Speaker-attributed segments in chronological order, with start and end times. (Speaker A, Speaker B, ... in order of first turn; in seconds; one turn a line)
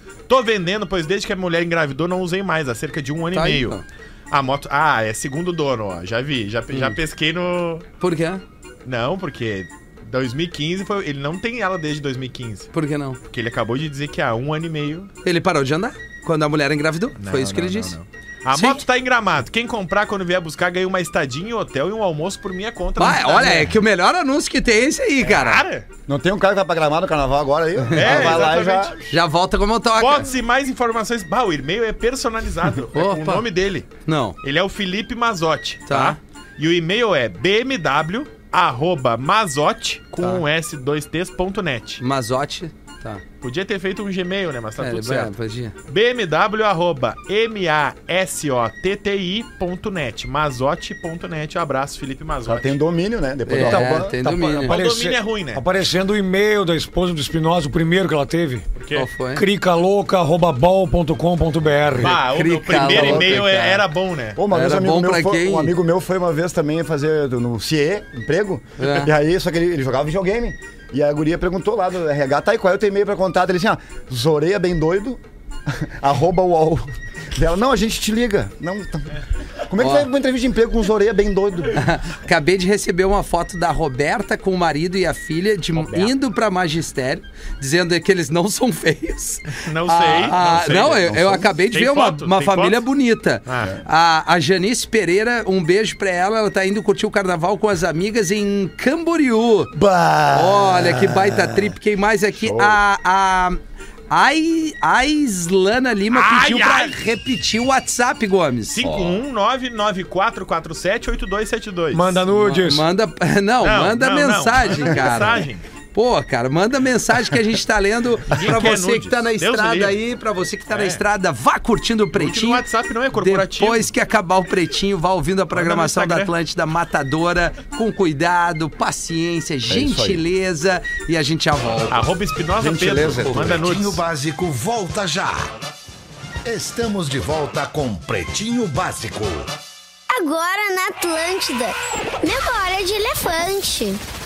Speaker A: 0.3-3.8
Speaker B: 3.3-3.8
Speaker A: 4.3-7.8
Speaker B: 6.7-7.0
Speaker B: 8.0-8.4
Speaker A: 8.8-12.7
Speaker B: 12.7-13.2
Speaker A: 13.3-15.1
Speaker B: 15.2-17.9
Speaker A: 17.2-23.7
Speaker B: 18.5-18.8
Speaker B: 23.0-25.6
Speaker A: 25.2-25.9
Speaker C: 26.1-28.9
Speaker B: 27.9-28.4
Speaker A: 27.9-29.1
Speaker B: 29.1-30.3
Speaker A: 30.0-33.9
Speaker B: 32.9-33.4
Speaker B: 34.0-34.4
Speaker A: 34.4-42.0
Speaker B: 35.9-36.2
Speaker B: 42.0-43.2
Speaker A: 43.4-45.3
Speaker B: 44.8-45.7
Speaker A: 45.9-52.8
Speaker C: 52.5-54.2
Speaker B: 53.5-54.8
Speaker D: 53.5-58.7
Speaker A: 54.6-55.6
Speaker A: 58.8-59.1
Speaker B: 58.9-59.4
Speaker D: 59.3-62.2
Speaker A: 62.0-64.4
Speaker B: 62.0-63.8
Speaker C: 62.8-63.7
Speaker C: 64.3-81.8
Speaker B: 64.5-65.7
Speaker B: 68.8-69.1
Speaker B: 79.8-80.1
Speaker B: 81.7-99.7
Speaker A: 85.7-86.1
Speaker A: 89.5-92.8
Speaker C: 90.3-91.5
Speaker A: 93.5-93.7
Speaker C: 99.7-101.4
Speaker B: 100.3-108.8
Speaker C: 102.4-102.8
Speaker A: 106.1-107.0
Speaker A: 108.7-112.2
Speaker D: 111.9-112.8
Speaker B: 112.3-132.1
Speaker A: 113.6-115.6
Speaker A: 118.3-120.0
Speaker A: 120.7-121.0
Speaker A: 122.1-123.9
Speaker A: 125.5-126.3
Speaker C: 129.6-130.2
Speaker A: 131.9-134.0
Speaker C: 132.6-133.7
Speaker E: 133.5-135.5
Speaker E: 136.4-139.5
Speaker F: 140.1-144.0